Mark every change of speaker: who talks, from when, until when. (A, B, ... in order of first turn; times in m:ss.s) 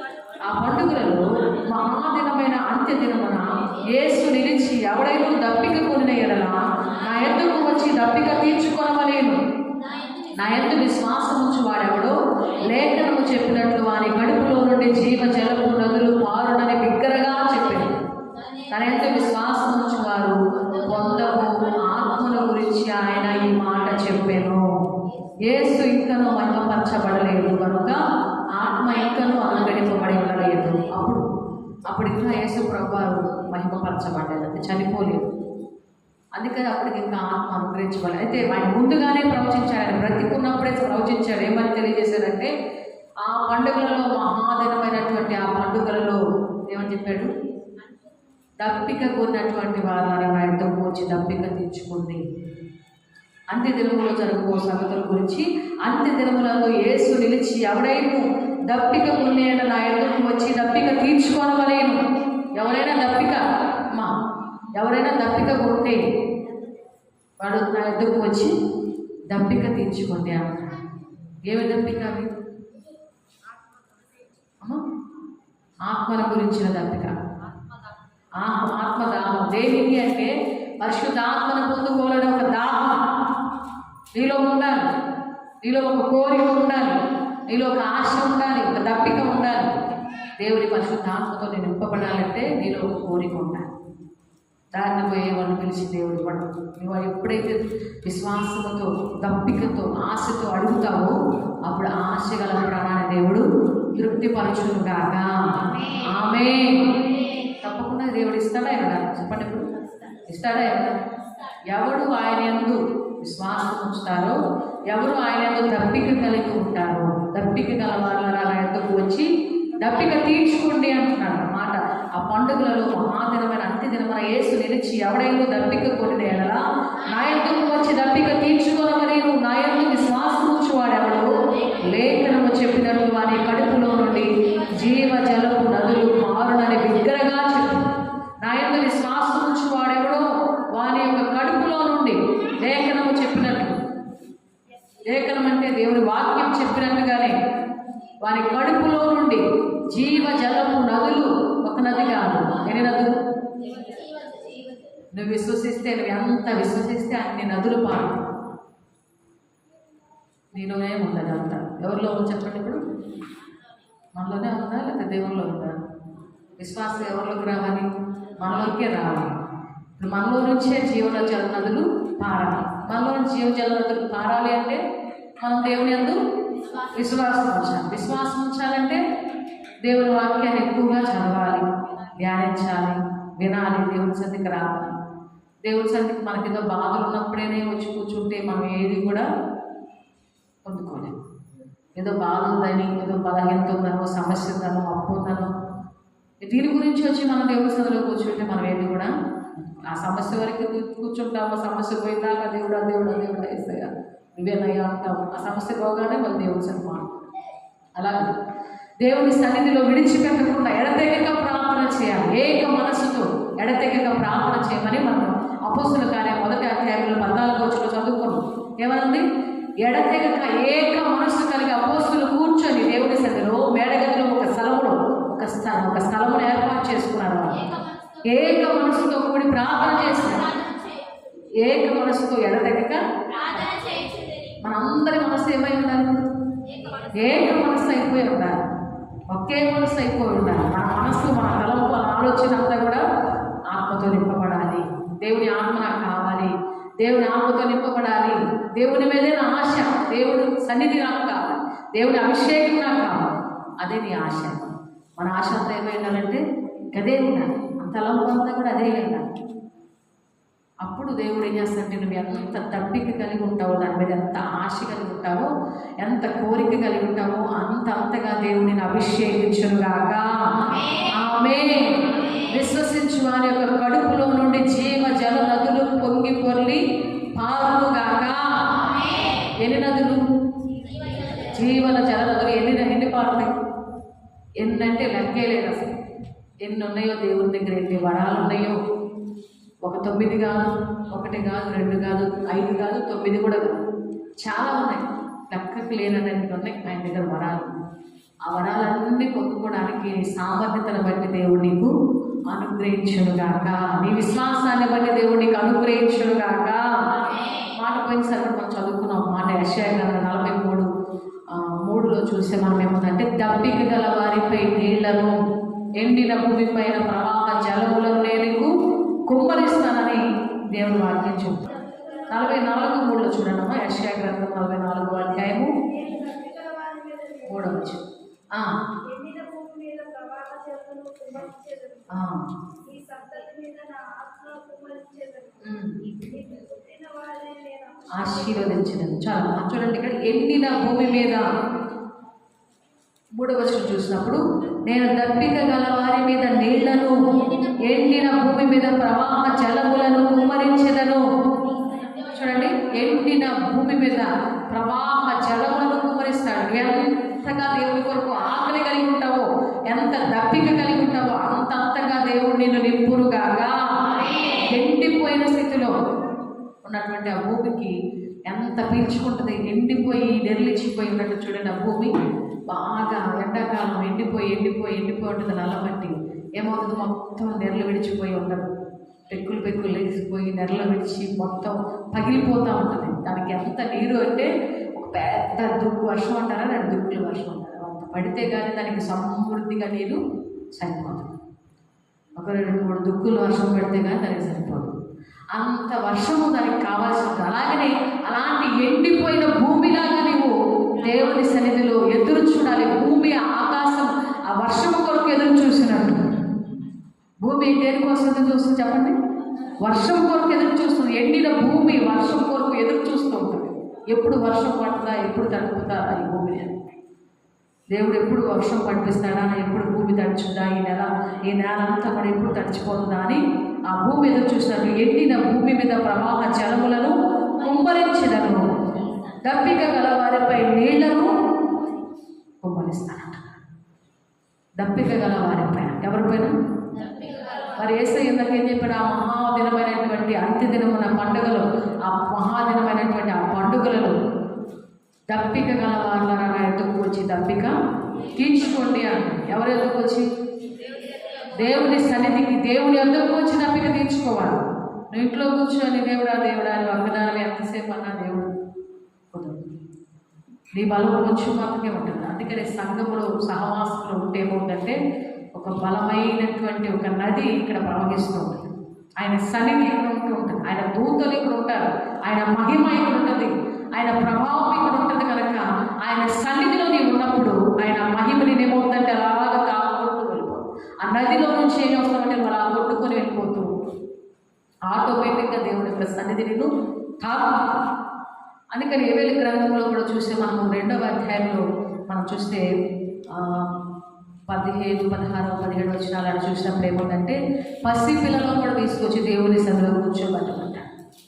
0:00.4-0:09.4 A
0:10.3-0:18.0 A
0:18.7-0:24.7 A
0:25.4-0:31.2 A
0:31.9-0:35.3 A
0:36.4-0:42.5 A
0:43.2-0:47.3 A
0:48.6-0:52.2 A
0:53.5-1:02.0 A
1:02.5-1:04.1 A
1:04.8-1:06.0 A
1:07.4-1:08.5 A
1:09.3-1:10.8 A
1:11.4-1:12.3 A
1:15.8-1:17.2 A
1:18.4-1:23.0 A
1:24.1-1:24.9 A
1:25.6-1:29.8 A
1:30.4-1:33.7 A
1:34.7-1:41.2 A
1:41.7-1:45.3 A
1:45.9-1:49.6 A
1:50.3-1:51.0 A
1:51.7-1:54.4 A
1:54.9-1:59.3 A
1:59.8-2:17.8 A
2:18.4-2:23.8 A
2:25.1-2:27.4 A
2:28.2-2:33.2 A
2:34.0-2:34.7 B
2:35.1-2:38.2 A
2:40.5-2:42.8 A
2:44.1-2:45.7 A
2:46.6-2:47.9 A
2:48.4-2:49.4 A
2:50.0-2:54.8 A
2:55.4-2:56.2 A
2:56.8-2:59.0 A
2:59.8-3:01.6 A
3:02.2-3:04.9 A
3:05.6-3:09.2 A
3:10.6-3:11.2 A
3:12.0-3:15.5 A
3:16.4-3:27.3 A
3:28.0-3:28.3 A
3:29.0-3:39.2 A
3:39.8-3:47.7 A
3:47.7-3:48.2 B
3:48.2-3:50.6 A
3:50.5-3:51.3 B
3:51.4-3:53.8 A
3:53.7-3:54.5 B
3:54.6-3:56.3 A
3:56.7-3:57.1 B
3:57.1-3:58.6 A
3:59.3-4:03.0 A
4:03.7-4:13.3 A
4:13.8-4:19.2 A
4:20.8-4:25.5 A
4:26.0-4:36.8 A
4:37.3-4:40.2 A
4:41.3-4:43.5 A
4:44.6-4:45.9 A
4:46.6-4:48.8 A
4:49.8-4:53.8 A
4:54.4-4:57.8 A
4:58.5-5:01.9 A
5:02.5-5:10.9 A
5:11.5-5:15.4 A
5:16.0-5:18.7 A
5:19.3-5:21.7 A
5:22.3-5:25.7 A
5:26.0-5:27.4 B
5:27.4-5:28.0 A
5:29.1-5:32.0 B
5:32.1-5:32.4 A
5:32.9-5:35.6 B
5:35.6-5:36.0 A
5:36.4-5:38.1 B
5:38.1-5:41.5 A
5:43.4-5:51.2 A
5:52.3-6:06.0 A
6:06.8-6:07.9 A
6:08.5-6:12.1 A
6:12.7-6:18.7 A
6:19.3-6:30.2 A
6:30.8-6:31.3 A
6:32.4-6:34.9 A
6:35.5-6:46.3 A
6:47.4-6:49.2 A
6:49.8-6:57.0 A
6:57.9-7:08.7 A
7:09.4-7:11.3 A
7:12.6-7:13.6 A
7:14.8-7:16.5 A
7:17.2-7:17.7 B
7:17.7-7:24.1 A
7:25.3-7:27.7 A
7:28.3-7:30.2 A
7:31.4-7:34.6 A
7:35.1-7:38.5 A
7:39.3-7:39.6 A
7:40.8-7:45.0 A
7:45.6-7:48.7 A
7:49.2-8:03.7 A
8:04.9-8:06.7 A
8:07.2-8:07.6 A
8:08.7-8:12.6 A
8:13.3-8:13.7 A
8:14.5-8:20.8 A